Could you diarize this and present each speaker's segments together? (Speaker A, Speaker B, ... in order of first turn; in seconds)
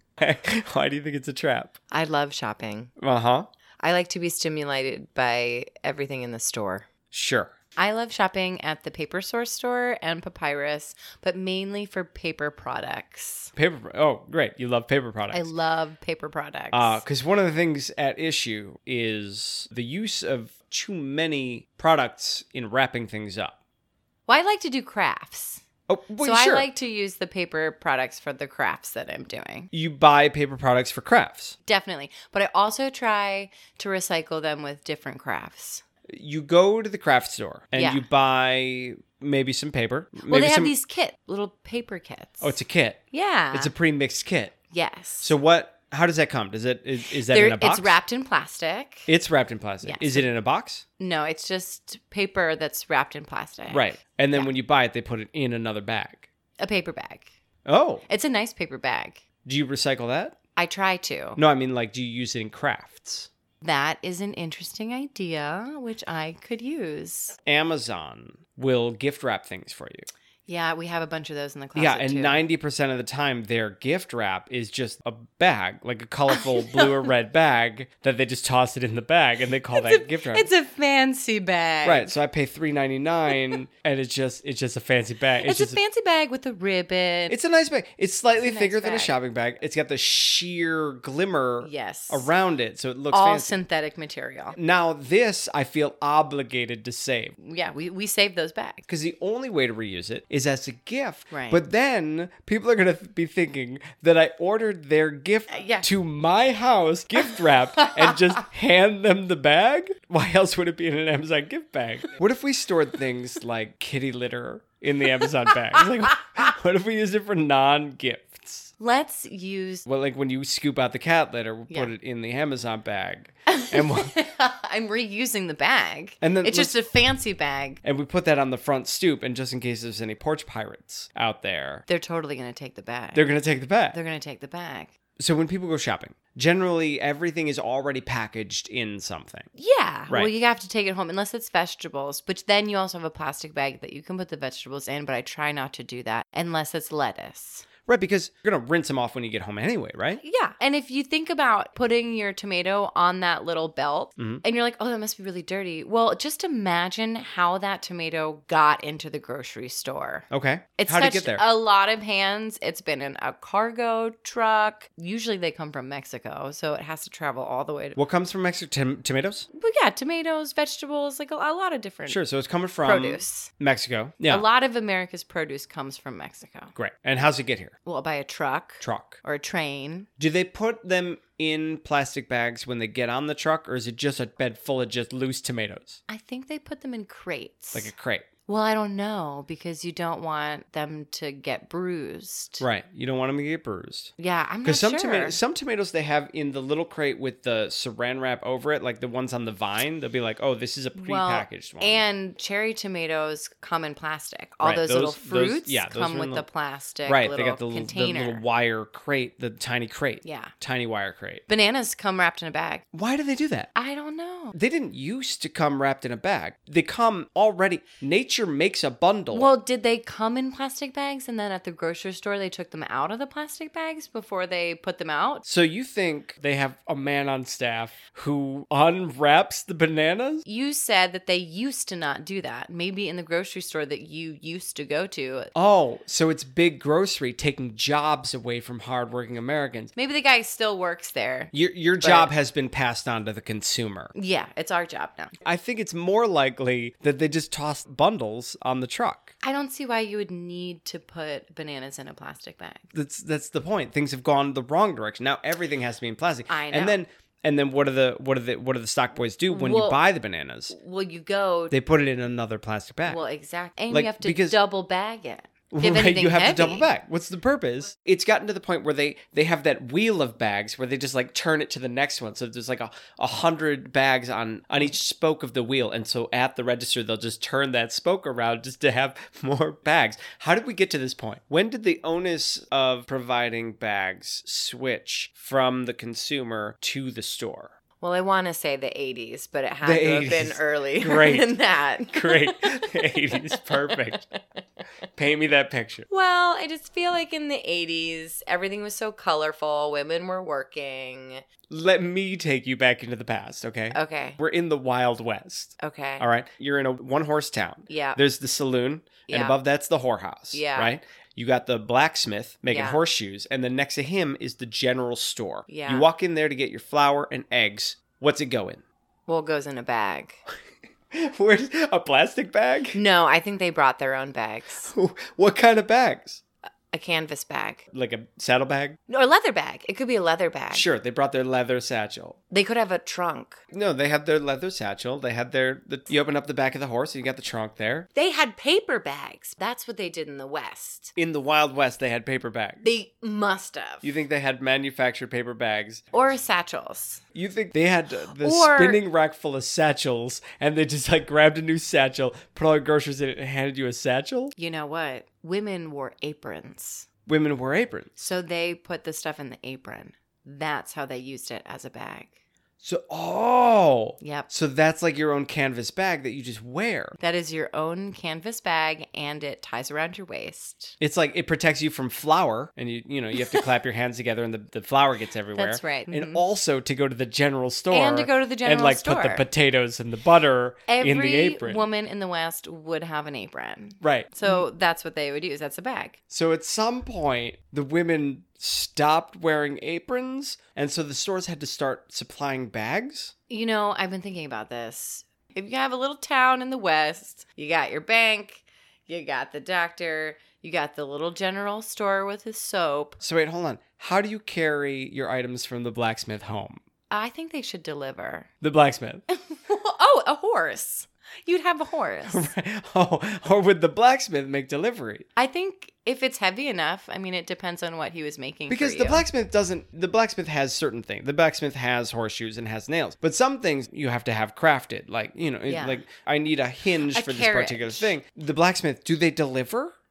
Speaker A: 0.2-1.7, 3.0-3.5, 7.1-7.5, 13.5-15.5, 16.7-23.6, 25.9-26.7, 29.7-31.6, 36.1-40.7, 42.4-44.5, 45.2-48.0, 49.1-50.8, 53.7-56.3, 57.6-58.0, 59.4-60.4, 61.4-63.3, 67.5-70.1, 71.7-80.5, 81.8-85.8, 87.3-93.5, 94.5-97.3, 98.9-118.7, 119.8-124.2, 126.2-126.7, 127.8-131.8, 133.1-134.0, 135.2-139.5, 147.8-150.2, 154.2-154.4, 160.3-161.4, 167.9-169.5, 172.1-174.4, 176.7-177.7, 178.8-179.2, 180.2-186.0, 187.7-188.3, 192.6-194.1, 194.6-202.0, 204.6-206.4, 207.1-211.4, 212.9-213.7, 214.5-219.5, 225.4-230.4, 235.5-239.9, 241.5-244.1, 245.4-249.3, 252.9-260.7, 261.7-263.2, 263.9-264.6, 265.7-287.7, 289.8-291.5, 292.1-294.2, 295.1-296.1, 301.7-318.8, 321.1-323.0, 324.9-326.4, 327.9-329.0, 330.7-332.4, 333.7-338.1, 341.1-342.8, 344.0-346.0, 347.3-354.5, 357.2-358.2, 362.8-367.2, 371.0-381.8, 384.0-384.6, 386.3-393.3, 403.2-406.8, 408.6-409.2, 412.2-415.2, 418.7-429.9
Speaker B: 1.9-2.9, 3.8-6.9, 7.8-13.5, 15.3-17.0, 24.3-25.6, 26.2-29.7, 31.6-35.8, 37.7-38.0, 40.3-42.6, 43.1-43.7, 44.7-45.3, 47.0-49.1, 49.8-50.3, 51.0-54.5, 56.6-57.3, 58.1-59.2, 60.5-61.4, 63.6-67.4, 70.5-72.4, 76.3-77.1, 79.7-82.1, 85.4-87.3, 88.4-89.1, 91.6-92.3, 93.1-94.5, 97.4-98.8, 101.3-101.6, 105.5-105.8, 118.8-119.8, 123.5-127.8, 131.9-133.3, 133.9-134.9, 139.5-147.7, 150.2-160.2, 160.8-168.0, 169.5-172.2, 172.8-173.5, 174.3-176.7, 177.8-180.1, 186.1-187.9, 188.5-192.7, 194.2-195.4, 200.9-208.4, 210.2-210.5, 211.5-212.8, 213.7-214.6, 219.3-225.4, 230.4-235.5, 239.9-242.3, 244.1-245.3, 249.4-252.9, 256.5-257.0, 259.5-260.0, 260.7-261.7, 263.0-266.9, 288.0-294.4, 296.1-301.4, 303.9-304.4, 305.8-306.2, 307.9-308.2, 309.3-309.6, 310.5-310.9, 312.7-313.0, 315.7-316.1, 319.3-320.4, 322.9-324.9, 326.9-327.8, 329.1-330.9, 332.5-333.6, 338.1-341.1, 342.8-344.2, 346.1-347.2, 348.3-349.0, 354.5-357.1, 358.2-362.3, 364.2-364.5, 367.2-370.9, 373.4-373.6, 375.5-376.4, 377.9-379.4, 380.9-386.2, 393.5-403.2, 407.1-408.5, 409.3-412.5, 415.4-419.2, 425.7-426.0, 427.0-428.2